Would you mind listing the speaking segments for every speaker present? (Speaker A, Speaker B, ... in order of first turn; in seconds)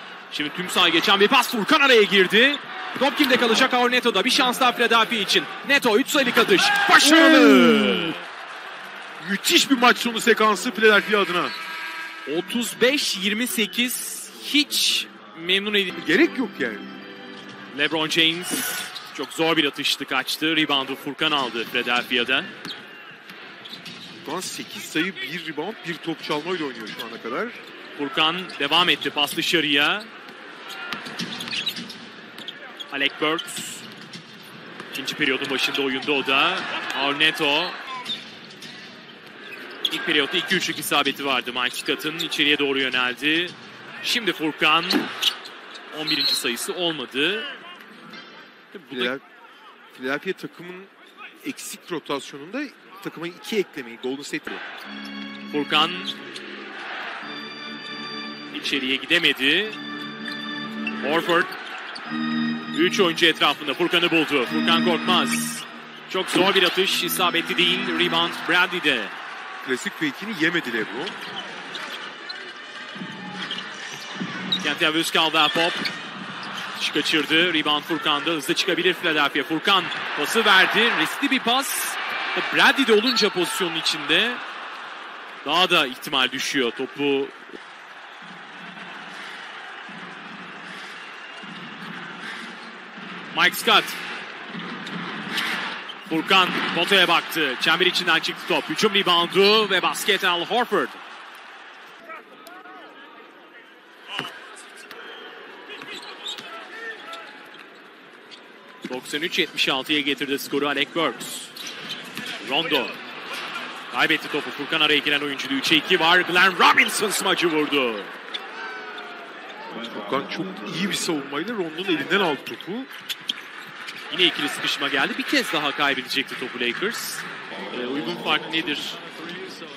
Speaker A: 0.3-8.2, 12.2-15.9, 17.7-22.5, 28.0-30.1, 32.9-33.9, 34.9-37.8, 39.9-45.1, 45.9-47.5, 48.7-49.1, 55.5-56.1, 58.5-59.8, 61.0-61.5, 62.7-69.1, 74.6-75.8, 76.8-84.4, 85.4-87.5, 93.3-94.0, 96.1-101.0, 108.8-111.5, 112.4-113.0, 113.9-118.1, 124.1-129.0
Speaker B: 7.0-8.2, 9.2-11.5, 15.9-16.9, 24.2-27.6, 48.9-49.2, 49.9-54.6, 69.6-71.2, 119.8-122.9